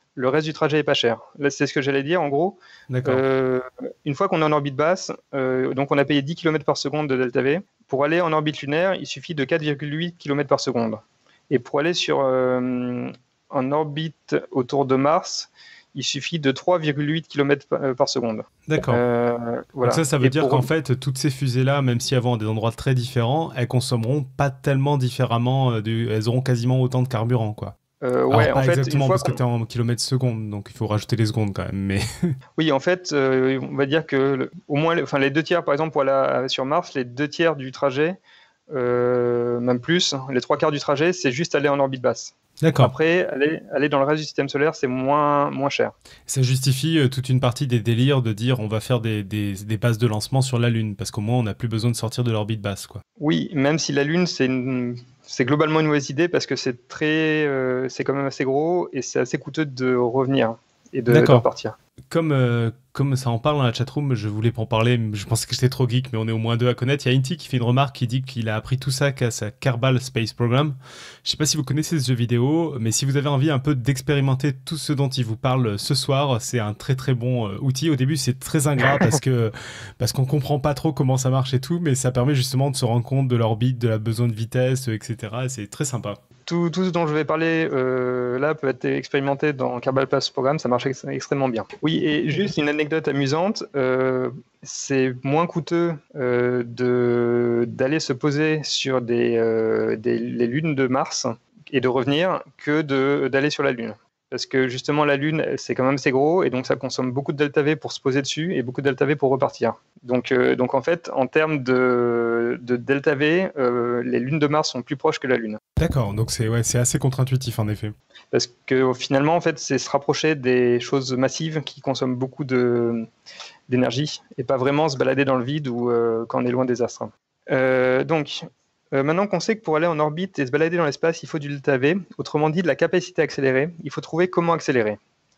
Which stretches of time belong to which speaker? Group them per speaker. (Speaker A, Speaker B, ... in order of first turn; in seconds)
Speaker A: 0.1-20.7, 28.0-29.4, 32.6-38.2, 38.7-45.9, 53.2-61.7, 86.5-115.6, 118.3-123.1, 123.7-135.0
Speaker B: 2.9-3.2, 18.7-19.0, 19.8-27.7, 28.3-32.3, 42.6-42.9, 46.3-53.0, 61.1-61.4, 62.1-86.2, 115.8-117.9